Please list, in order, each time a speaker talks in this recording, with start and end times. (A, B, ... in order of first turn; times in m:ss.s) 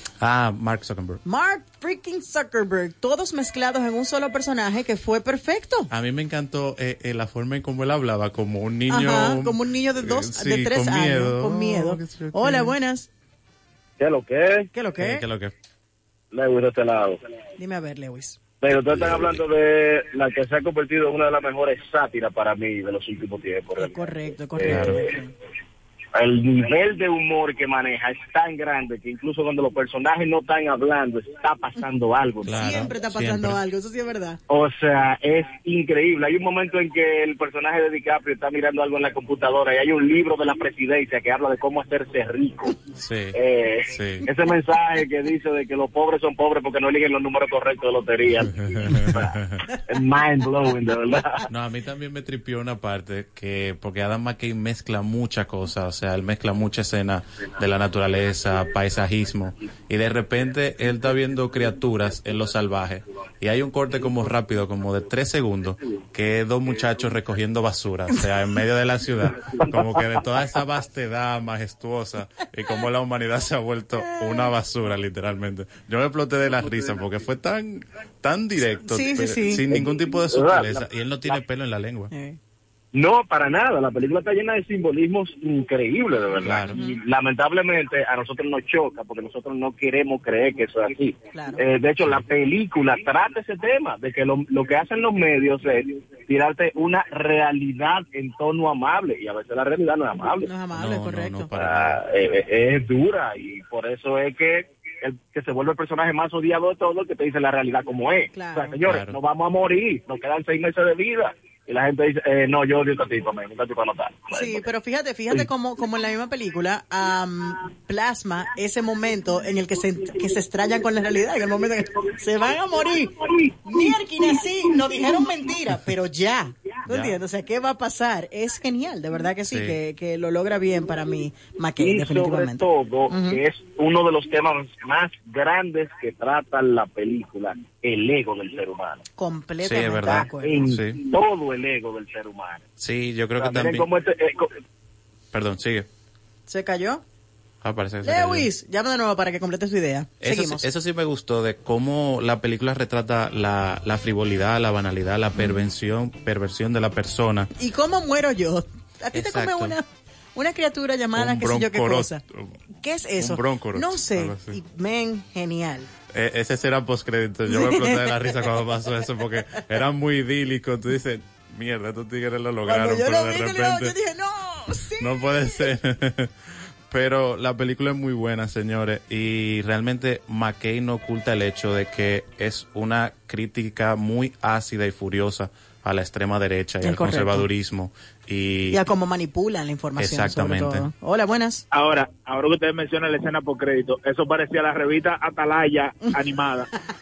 0:00.2-0:01.2 A
0:01.2-0:05.9 B
0:05.9-0:12.7 A
0:08.9-0:13.1 B
0:14.0-0:14.7 C
0:14.7-0:15.2 B
0:15.0-0:15.5 A
0:16.3-0:17.2 C
0:17.6-0:18.4 B
0:18.6-0:25.1 C
0:23.8-0:25.3 B
0:24.7-0:25.0 A
0:26.1-0:32.6 C
0:32.4-0:33.6 A
0:32.5-0:34.4 B
0:34.5-0:42.8 C
0:43.0-0:43.4 A
0:43.3-0:49.3 C
0:43.9-0:44.2 A
0:48.8-0:49.6 A
0:49.9-0:51.4 C
0:51.5-1:22.1 A
1:14.0-1:14.5 B
1:18.8-1:19.6 B
1:19.7-1:21.4 C
1:22.1-1:22.4 B
1:22.9-1:40.5 C
1:26.4-1:26.8 A
1:26.7-1:27.0 B
1:31.3-1:31.6 B
1:40.4-1:41.5 B
1:40.7-1:42.0 A
1:41.6-1:54.6 C
1:48.3-1:48.8 B
1:48.8-1:49.2 A
1:54.3-2:13.4 B
2:06.9-2:07.2 A
2:09.5-2:09.8 A
2:11.8-2:19.0 C
2:19.2-2:20.6 B
2:19.6-2:21.0 A
2:20.2-2:22.6 C
2:22.8-2:23.9 A
2:23.4-2:24.5 C
2:25.3-2:25.9 A
2:26.5-2:27.0 B
2:27.6-2:28.5 A
2:28.0-2:30.7 B
2:30.2-2:37.5 A
2:35.4-2:35.7 B
2:37.6-2:42.2 B
2:39.1-2:39.8 A
2:41.2-2:42.5 A
2:42.8-2:45.9 B
2:43.2-2:44.6 A
2:46.1-2:53.9 A
2:47.5-2:48.4 B
2:52.6-2:55.7 B
2:55.0-2:56.3 A
2:56.9-3:08.8 A
3:06.8-3:07.5 B
3:08.7-3:11.6 B
3:10.0-3:10.8 A
3:11.7-3:16.7 D